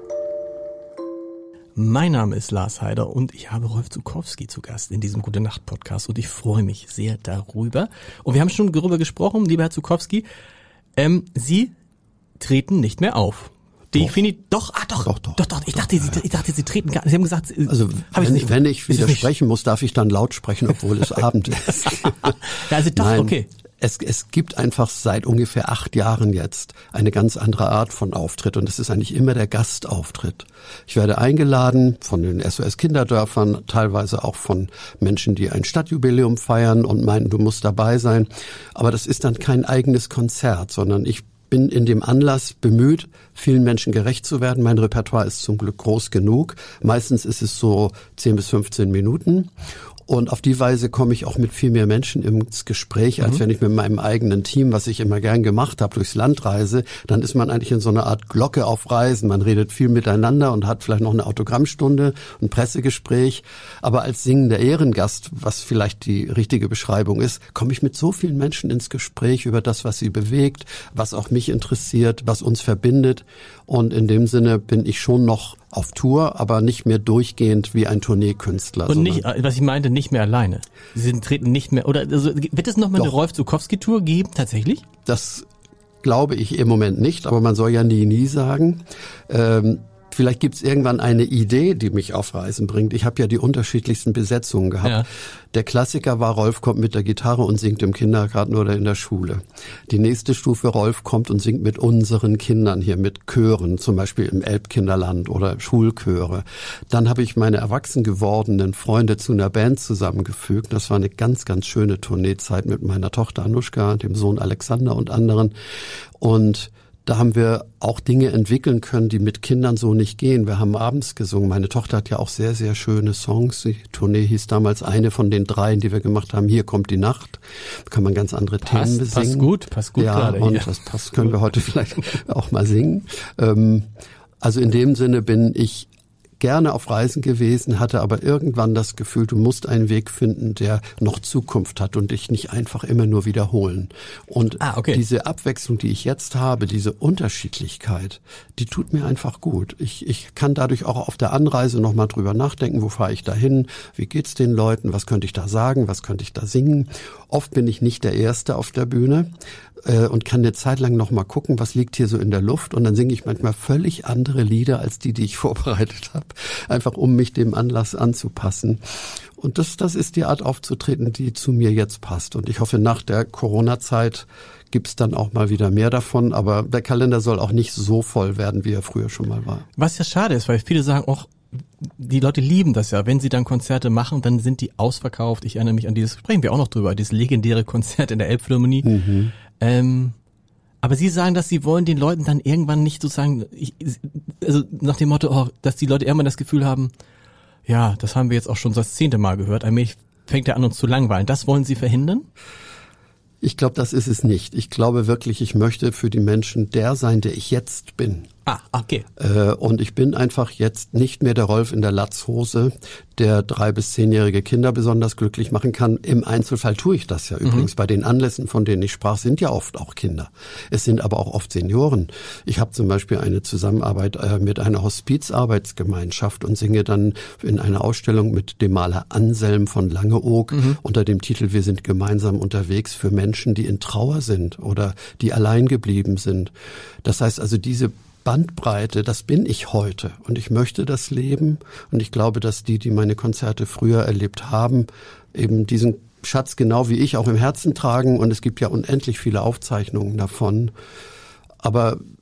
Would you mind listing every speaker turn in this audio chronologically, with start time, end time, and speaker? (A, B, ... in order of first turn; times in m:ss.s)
0:01.8-0:10.3 A
0:11.0-0:11.7 A
0:12.4-0:19.3 A
0:13.9-0:14.2 B
0:15.0-0:16.2 B
0:17.7-0:22.4 B
0:22.0-0:23.5 A
0:22.9-0:49.5 B
0:50.1-1:19.3 B
1:18.9-1:24.8 A
1:25.1-1:25.5 B
1:26.0-1:55.5 B
1:56.2-2:13.9 B
2:08.6-2:10.8 A
2:14.4-2:15.9 B
2:16.4-2:39.3 B
2:24.6-2:25.0 A
2:39.8-2:59.6 B
2:59.8-3:08.9 A
3:08.8-3:09.4 B
3:09.5-3:10.2 A
3:10.8-3:16.9 A
3:17.7-3:22.3 A
3:23.4-3:28.3 B
3:28.5-3:29.1 A
3:29.2-3:56.5 B
3:37.4-3:37.7 A
3:57.0-4:10.7 B
4:11.6-4:12.0 B